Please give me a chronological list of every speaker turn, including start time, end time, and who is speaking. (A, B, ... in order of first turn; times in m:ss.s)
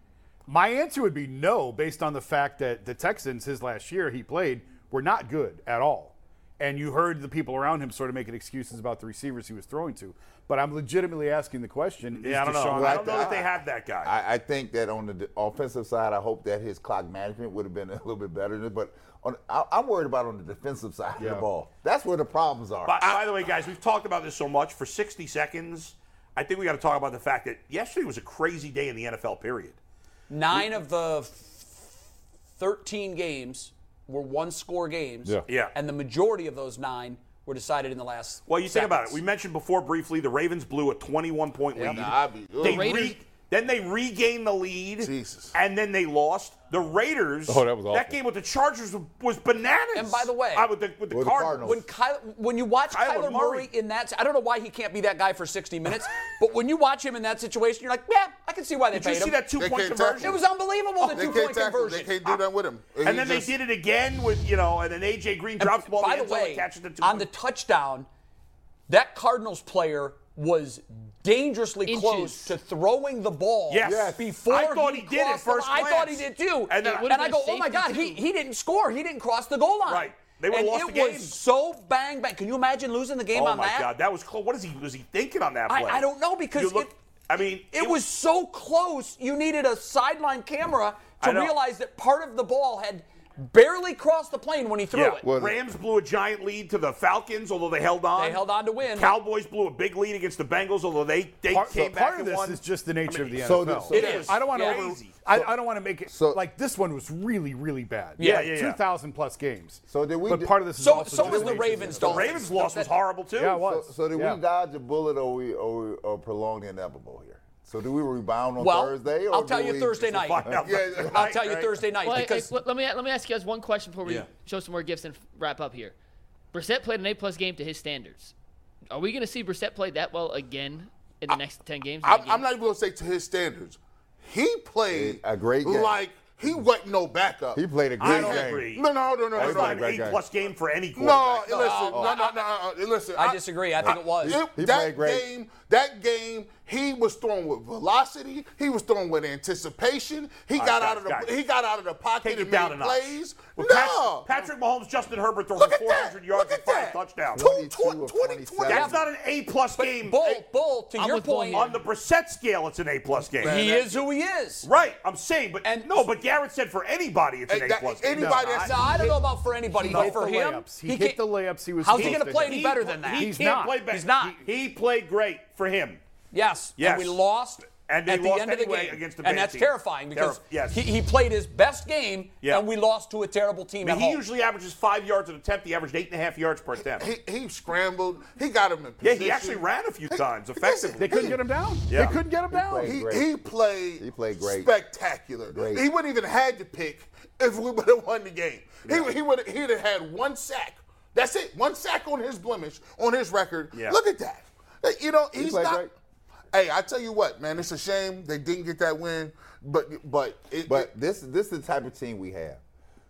0:00.5-0:13.4 A
0:12.2-0:14.1 B
0:12.7-0:23.0 C
0:21.2-0:21.5 A
0:22.8-0:29.8 B
0:23.0-0:23.3 D
0:30.3-0:32.0 E
0:32.6-0:39.2 E
0:35.5-0:35.7 B
0:38.5-0:51.8 B
0:41.8-0:43.1 D
0:42.6-0:43.2 F
0:45.0-0:45.5 D
0:47.5-0:48.2 C
0:49.9-0:50.7 E
0:51.1-0:51.8 C
0:51.6-0:59.4 E
0:52.9-0:53.7 B
0:58.9-1:00.4 B
0:59.6-1:00.4 D
1:00.2-1:02.4 E
1:01.0-1:03.5 D
1:03.0-1:07.3 B
1:05.6-1:08.1 E
1:08.9-1:23.9 E
1:11.9-1:12.6 F
1:13.7-1:17.1 B
1:13.8-1:14.2 C
1:16.8-1:18.2 F
1:19.9-1:21.4 B
1:23.3-1:28.0 B
1:25.7-1:26.9 E
1:27.7-1:35.3 E
1:31.2-1:31.6 B
1:34.9-1:45.2 B
1:35.2-1:35.6 C
1:38.2-1:39.2 E
1:41.5-1:52.4 A
1:43.4-1:44.0 C
1:43.9-1:44.8 E
1:46.1-1:46.4 C
1:48.2-1:48.5 E
1:48.2-1:48.8 B
1:49.9-1:52.3 C
1:50.8-1:52.9 E
1:52.0-1:53.6 B
1:53.4-1:54.4 A
1:53.6-2:01.1 C
1:58.6-2:00.5 E
2:00.1-2:01.9 B
2:00.6-2:01.4 D
2:01.0-2:02.5 E
2:02.0-2:06.0 F
2:06.5-2:08.3 F
2:08.9-2:12.5 F
2:12.0-2:20.0 D
2:14.9-2:16.0 C
2:17.5-2:18.7 C
2:18.0-2:21.8 B
2:19.3-2:20.2 C
2:21.0-2:34.3 D
2:21.5-2:22.4 E
2:23.2-2:24.4 E
2:23.8-2:25.3 C
2:30.6-2:31.3 B
2:32.2-2:37.4 B
2:35.6-2:38.9 D
2:37.3-2:39.0 C
2:38.7-2:40.4 B
2:38.7-2:39.1 E
2:39.7-2:41.7 E
2:41.0-2:41.8 F
2:41.5-2:43.6 B
2:43.3-2:44.1 D
2:43.4-2:44.7 E
2:44.6-2:48.7 B
2:45.6-2:46.1 E
2:47.5-2:49.2 D
2:48.2-2:48.5 A
2:48.6-2:51.2 E
2:49.8-2:54.4 A
2:49.9-2:50.2 B
2:51.8-2:54.4 E
2:51.9-2:56.0 B
2:56.3-3:04.2 E
2:56.8-3:00.8 B
3:03.8-3:07.1 B
3:06.8-3:11.4 D
3:09.0-3:11.4 B
3:11.0-3:13.0 A
3:11.9-3:12.2 B
3:12.5-3:13.3 C
3:12.8-3:25.9 D
3:14.0-3:14.7 C
3:15.5-3:15.9 C
3:18.8-3:19.1 B
3:25.4-3:25.9 C
3:26.5-3:30.9 D
3:30.6-3:32.6 C